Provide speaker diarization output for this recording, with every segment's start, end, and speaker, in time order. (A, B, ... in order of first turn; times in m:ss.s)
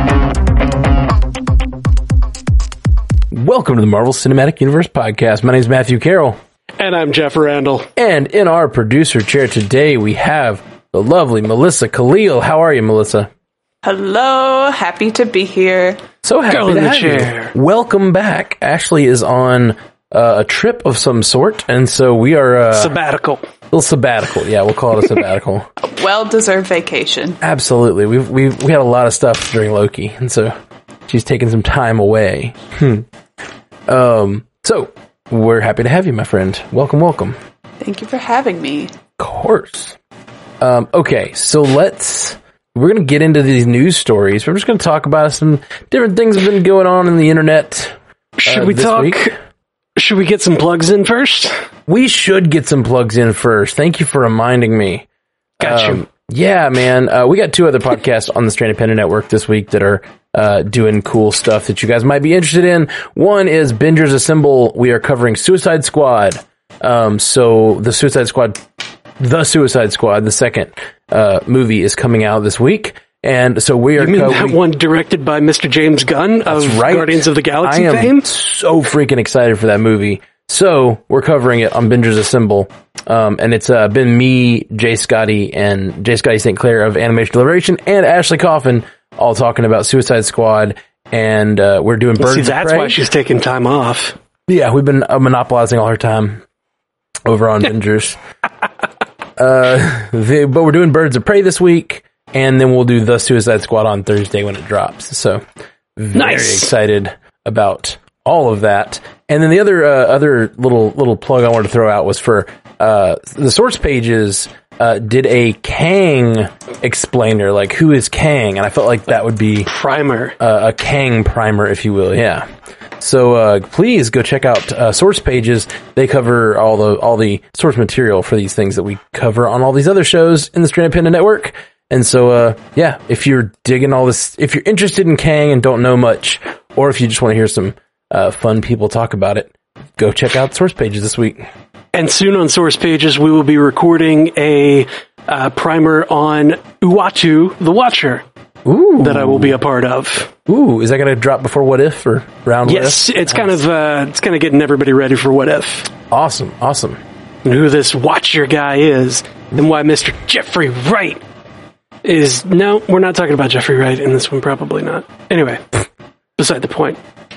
0:03.3-0:06.4 A
0:06.8-0:07.9 B
0:08.0-0:13.3 A
0:13.8-0:16.0 C
0:16.2-0:23.0 A
0:16.5-0:17.5 B
0:22.7-0:23.4 B
0:23.7-0:25.7 A
0:25.8-0:27.4 C
0:27.4-0:30.5 A
0:31.1-0:33.1 A
0:33.9-0:37.4 A
0:37.8-0:38.9 C
0:39.2-0:40.0 A
0:40.6-0:48.0 A
0:48.4-0:49.3 B
0:48.5-0:49.3 A
0:50.0-0:51.6 B
0:51.9-0:55.1 A
0:55.6-0:56.0 B
0:55.6-1:08.6 A
1:09.2-1:14.6 A
1:14.0-1:18.3 B
1:16.4-1:33.0 A
1:32.2-1:34.2 B
1:34.5-1:36.4 A
1:37.2-1:38.2 A
1:39.4-1:45.4 A
1:46.0-1:59.7 A
1:46.1-1:46.7 B
1:59.6-2:00.4 B
2:00.4-2:02.4 A
2:03.0-2:21.5 A
2:21.9-2:28.2 B
2:28.6-2:29.6 A
2:29.0-2:30.3 B
2:30.4-2:33.6 A
2:32.6-2:35.9 B
2:36.1-2:37.0 A
2:37.4-2:41.2 B
2:42.0-2:45.8 B
2:46.4-2:47.0 B